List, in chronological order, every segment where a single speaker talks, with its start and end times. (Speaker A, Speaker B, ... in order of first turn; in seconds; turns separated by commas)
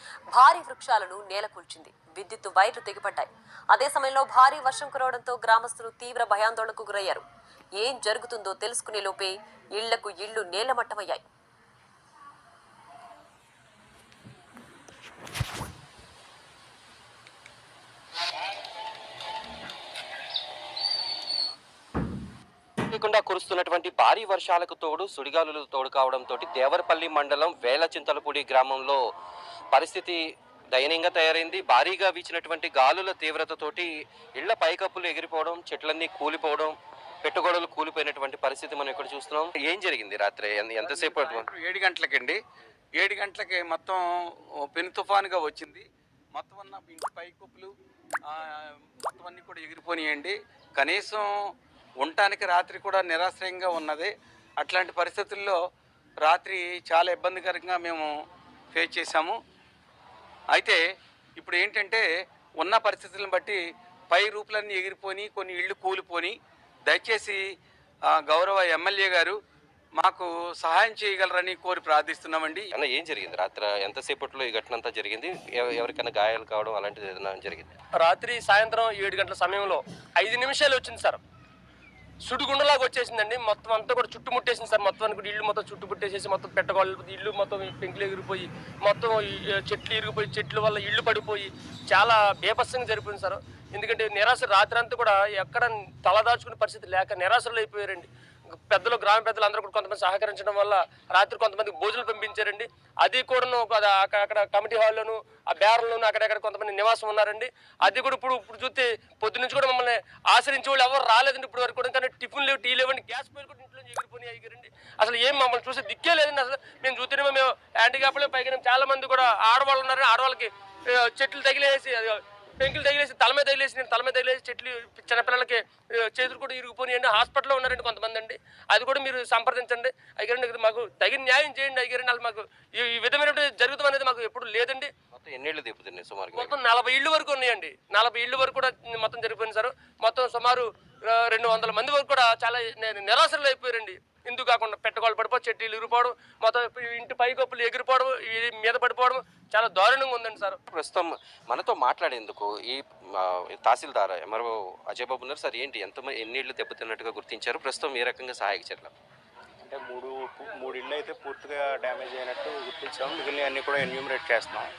Speaker A: 0.3-7.2, Speaker A: 7.8-11.2, Speaker B: 22.9-29.0, Speaker B: 29.7-30.2, Speaker B: 30.7-41.5, Speaker C: 40.8-42.4, Speaker C: 43.0-44.0, Speaker C: 44.7-47.7, Speaker C: 48.2-51.3, Speaker C: 52.0-55.6, Speaker C: 56.2-58.1, Speaker C: 58.7-59.4, Speaker C: 60.5-60.8, Speaker C: 61.4-62.0, Speaker C: 62.6-67.4, Speaker C: 68.1-69.4, Speaker C: 70.0-72.7, Speaker B: 72.7-77.8, Speaker D: 78.0-81.2, Speaker D: 82.3-98.1, Speaker D: 98.7-134.9, Speaker B: 135.1-136.6, Speaker D: 136.3-150.6, Speaker B: 150.7-158.9, Speaker E: 159.6-164.7